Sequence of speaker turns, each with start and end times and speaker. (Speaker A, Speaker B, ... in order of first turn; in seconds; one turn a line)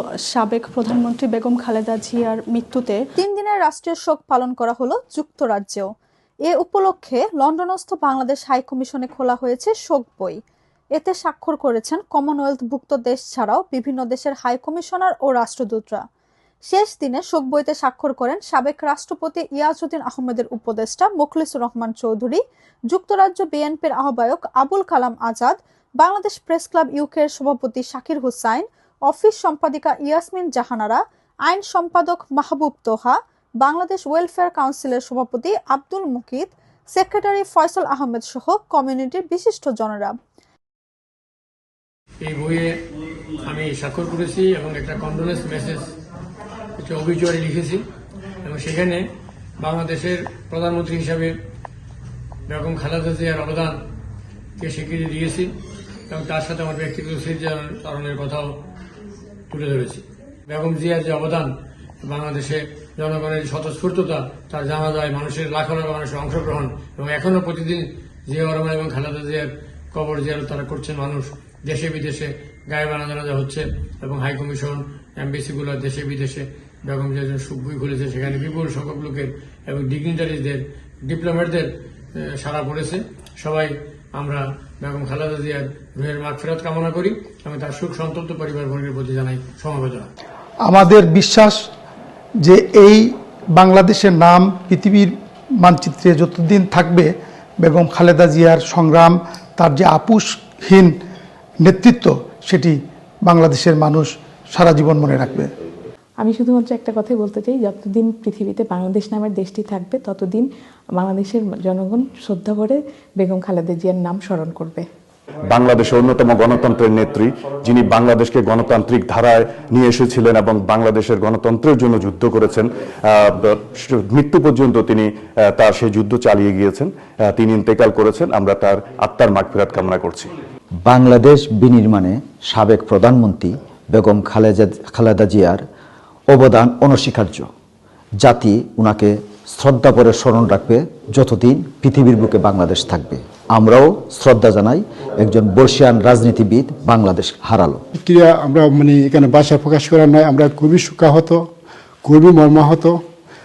Speaker A: 0.4-2.9
Speaker B: 3.2-5.8
Speaker B: 6.5-10.4
Speaker B: 10.9-16.0
Speaker B: 16.6-40.1
Speaker C: 42.2-42.7
Speaker C: 43.4-45.9
Speaker C: 46.8-47.8
Speaker C: 48.4-49.0
Speaker C: 49.6-51.3
Speaker C: 52.5-53.7
Speaker C: 54.6-55.5
Speaker C: 56.1-58.5
Speaker C: 59.5-90.1
Speaker D: 90.6-91.7
Speaker D: 92.4-100.9
Speaker D: 101.6-105.5
Speaker E: 106.2-110.4
Speaker E: 111.0-114.8
Speaker F: 115.5-130.3
Speaker G: 130.8-135.6
Speaker G: 136.3-137.5
Speaker G: 138.2-147.8
Speaker H: 148.0-151.5
Speaker H: 152.0-153.0